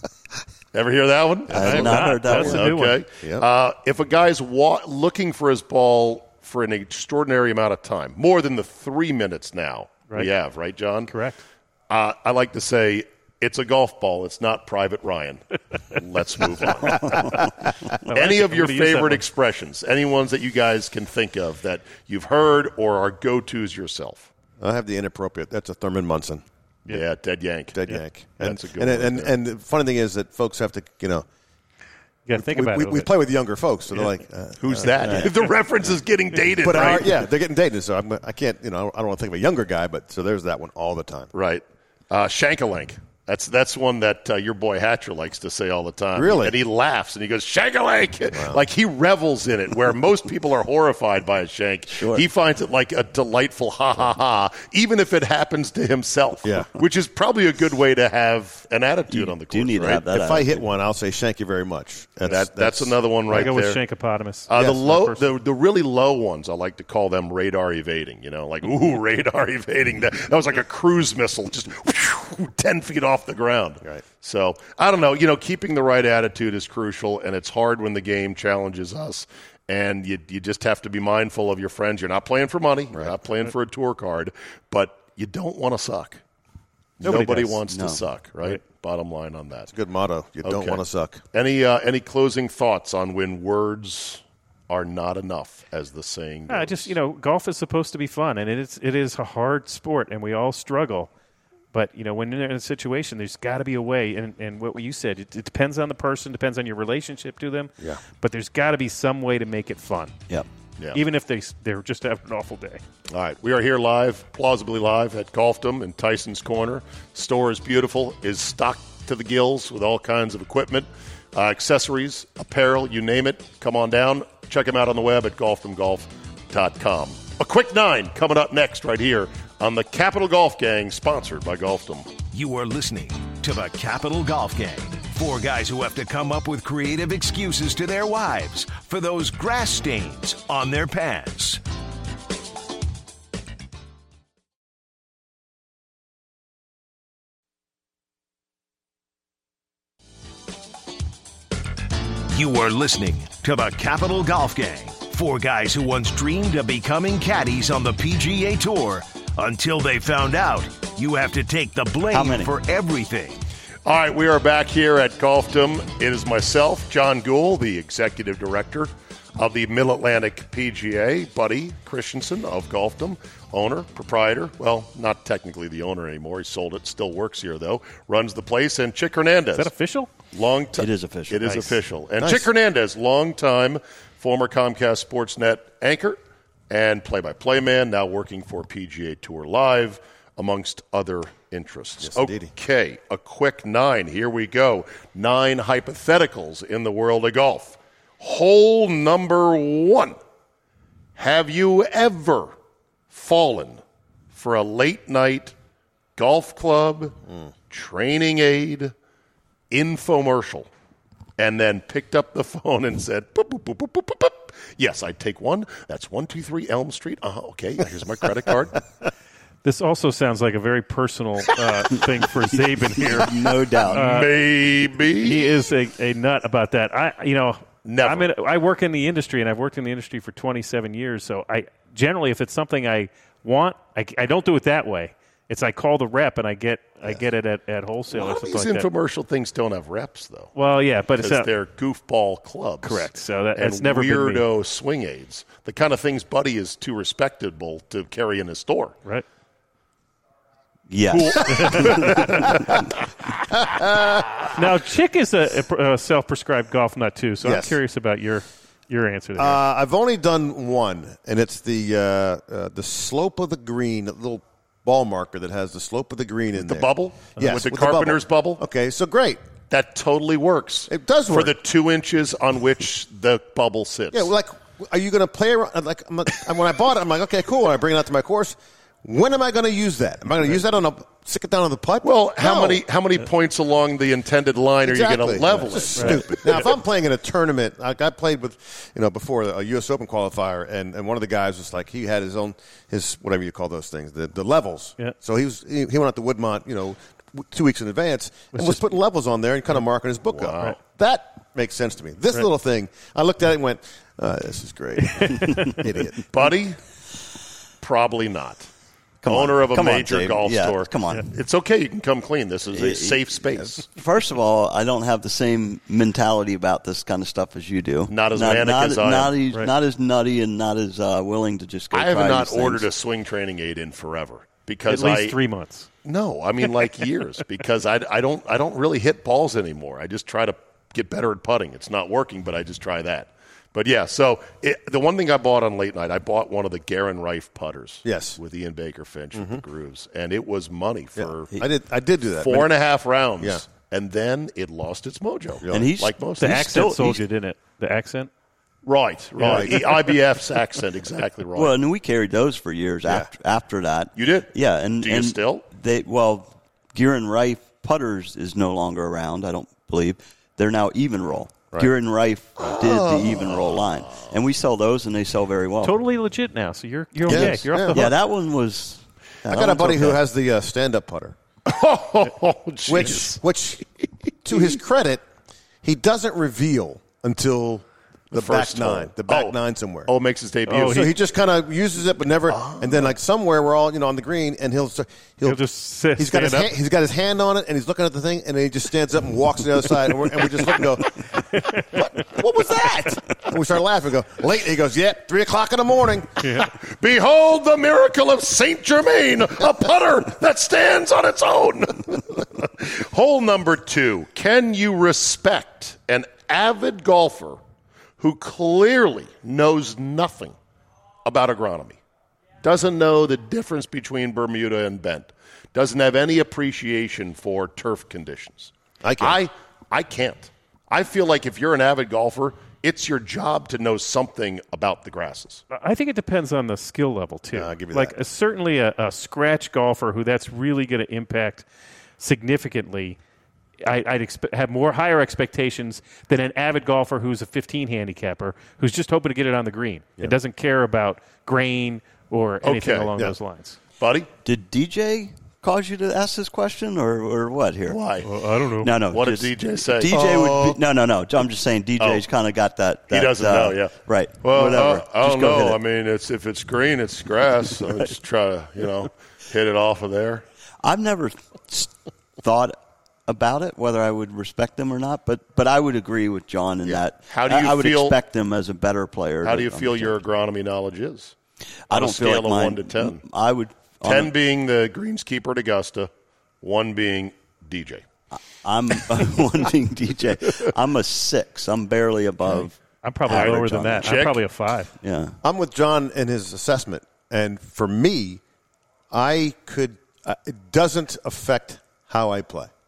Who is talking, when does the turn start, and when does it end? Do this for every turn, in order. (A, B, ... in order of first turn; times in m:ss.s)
0:00.7-0:11.1 A
0:01.5-0:02.6 B
0:01.5-0:02.7 C
0:01.6-0:03.0 D
0:11.1-0:11.4 D
0:11.9-0:17.5 A
0:18.0-0:19.2 D
0:18.1-0:24.3 A
0:24.6-0:26.4 B
0:26.9-0:29.3 A
0:27.7-0:31.3 B
0:32.3-0:33.1 D
0:32.4-0:35.3 B
0:34.6-0:37.1 A
0:36.6-0:41.3 B
0:41.3-1:00.0 A
0:46.2-0:46.6 B
0:48.4-0:48.6 B
0:51.9-0:52.2 C
0:56.4-0:56.7 B
0:59.1-1:00.6 C
1:00.1-1:03.5 B
1:02.3-1:03.8 A
1:03.3-1:05.2 D
1:04.5-1:26.2 A
1:27.0-1:29.7 A
1:27.0-1:28.0 C
1:29.7-1:31.2 B
1:30.4-1:30.8 A
1:31.3-1:36.9 A
1:36.5-1:41.1 D
1:41.7-1:50.2 D
1:50.9-1:52.8 D
1:53.1-2:12.1 A
2:12.3-2:21.6 E
2:32.3-2:43.4 E
2:42.1-2:42.5 C
2:43.9-2:59.7 A
2:59.6-3:00.1 D
3:00.3-3:06.2 A
3:00.8-3:01.7 C
3:02.2-3:02.5 B
3:06.7-3:20.2 A
3:12.0-3:12.5 B
3:21.2-3:22.6 A
3:23.1-3:23.8 A
3:24.3-3:25.6 A
3:26.2-3:27.2 A
3:27.7-3:28.9 A
3:29.7-3:30.7 A
3:31.4-3:38.8 A
3:39.6-3:44.4 D
3:42.9-3:44.0 C
3:43.9-3:45.5 A
3:45.2-3:58.9 D
3:47.8-3:48.3 A
3:58.1-4:00.5 A
4:00.6-4:01.5 D
4:01.2-4:09.0 A
4:02.8-4:04.4 D
4:10.9-4:12.6 C
4:11.2-4:12.8 A
4:11.5-4:12.5 D
4:13.6-4:14.4 B
4:14.5-4:19.6 D
4:17.4-4:17.8 B
4:19.4-4:29.4 B
4:26.6-4:28.6 A
4:29.7-4:34.3 A
4:30.9-4:31.6 B
4:34.1-4:42.8 B
4:42.0-4:46.5 A
4:44.8-5:06.2 B
4:46.0-4:46.3 D
4:58.5-4:58.8 D
5:00.3-5:00.8 A
5:05.1-5:05.9 D
5:06.3-5:06.8 A
5:07.8-5:08.7 A
5:09.2-5:11.3 C
5:09.3-5:13.9 A
5:12.7-5:13.4 C
5:14.0-5:22.9 C
5:18.1-5:19.4 A
5:21.9-5:25.4 A
5:24.9-5:25.9 D
5:26.0-5:41.5 A
5:38.0-5:38.4 B
5:39.4-5:39.6 B
5:41.2-5:42.7 B
5:42.4-5:46.6 A
5:45.6-5:45.9 B
5:45.7-5:47.2 C
5:46.4-5:48.3 D
5:48.8-5:51.8 A
5:49.4-5:49.8 B
5:49.4-5:49.8 D
5:51.6-6:06.0 C
5:54.2-5:55.6 A
6:02.6-6:04.3 A
6:05.8-6:08.2 D
6:07.3-6:08.0 B
6:07.3-6:10.2 C
6:09.5-6:11.4 B
6:11.7-6:13.4 A
6:12.9-6:13.8 B
6:14.4-6:15.2 B
6:14.5-6:14.8 A
6:15.8-6:20.1 B
6:18.3-6:21.1 A
6:20.7-6:21.1 D
6:20.9-6:25.6 B
6:22.5-6:23.1 A
6:25.4-6:26.7 D
6:26.2-6:31.3 B
6:31.6-6:32.1 D
6:32.2-6:36.3 B
6:32.6-6:33.2 A
6:36.4-6:47.6 A
6:48.2-6:50.6 A
6:51.2-6:52.0 A
6:52.6-7:05.6 A
6:59.0-6:59.4 B
7:05.7-7:11.6 D
7:07.5-7:08.2 B
7:12.2-7:13.2 D
7:13.8-7:23.8 D
7:22.6-7:23.1 A
7:24.0-7:24.3 A
7:24.4-7:28.0 C
7:27.9-7:28.4 A
7:28.2-7:29.0 D
7:28.8-7:35.8 C
7:29.1-7:30.8 A
7:33.1-7:40.4 A
7:40.8-7:42.8 C
7:43.3-7:50.2 C
7:47.3-7:48.2 A
7:49.4-7:51.3 A
7:51.9-7:54.3 C
7:51.9-7:53.2 A
7:54.0-7:56.1 A
7:56.6-7:58.0 A
7:58.4-8:04.1 C
8:03.0-8:04.9 D
8:03.3-8:04.4 A
8:05.0-8:05.4 C
8:05.4-8:08.4 B
8:09.1-8:12.7 B